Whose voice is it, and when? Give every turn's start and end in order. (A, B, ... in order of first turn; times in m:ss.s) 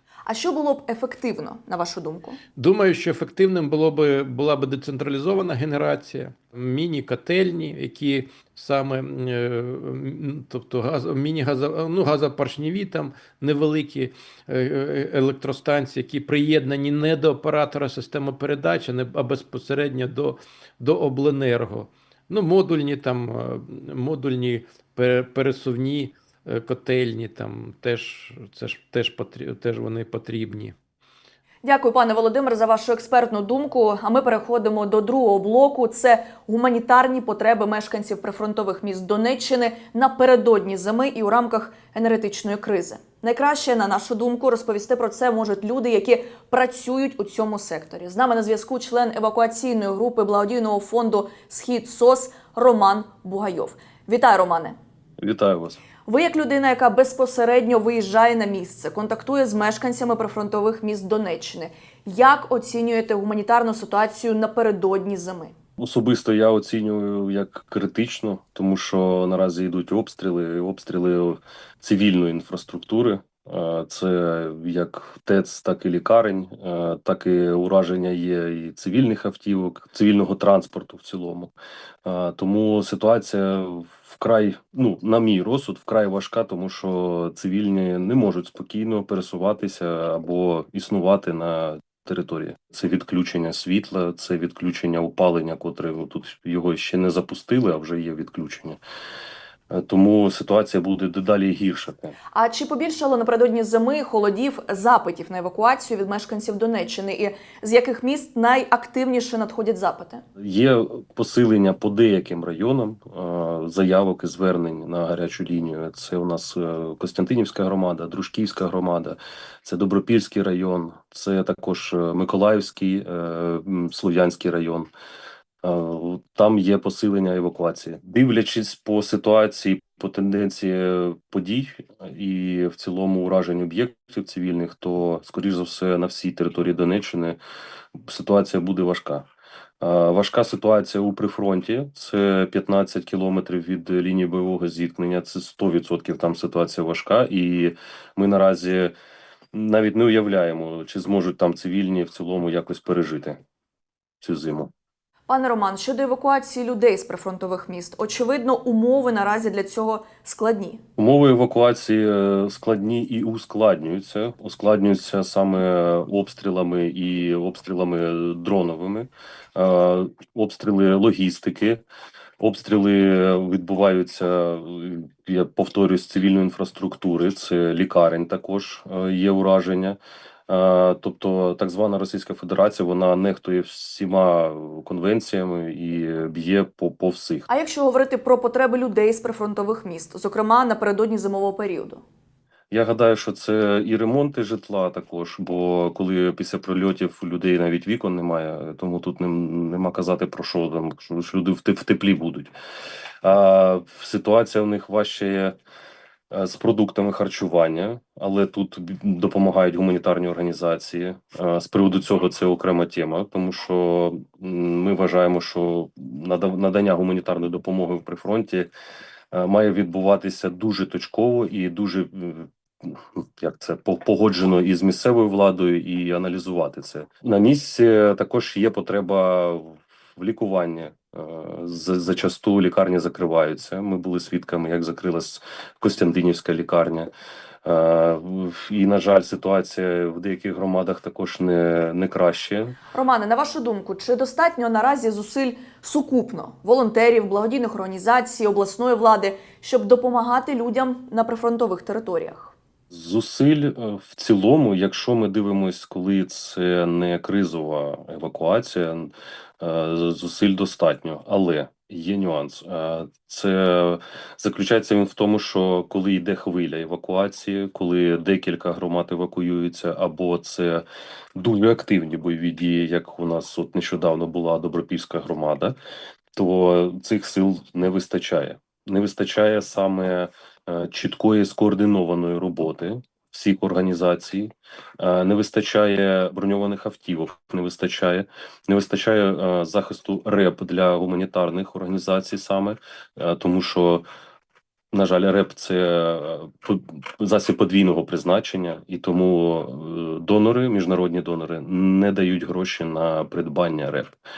0:00.3-0:02.4 A
0:02.6-0:30.7 B
0:31.6-0:54.8 A
0:55.2-0:55.8 C
0:56.0-1:05.5 A
1:05.8-1:21.5 C
1:22.0-1:38.8 C
1:39.7-1:42.2 C
1:42.3-1:50.2 A
1:50.4-2:04.9 C
2:05.6-2:17.4 C
2:18.0-2:19.2 C
2:19.8-2:28.9 C
2:29.5-2:33.4 C
2:34.2-2:34.7 C
2:35.3-2:40.8 A
2:41.0-2:51.8 C
2:52.4-3:07.5 C
3:07.5-3:12.0 A
3:12.7-3:22.5 C
3:23.2-3:25.6 C
3:26.3-3:38.7 C
3:39.3-3:57.1 C
3:57.6-4:02.8 C
4:02.9-4:12.6 A
4:12.9-4:35.8 C
4:36.4-4:54.0 C
4:54.9-5:04.2 C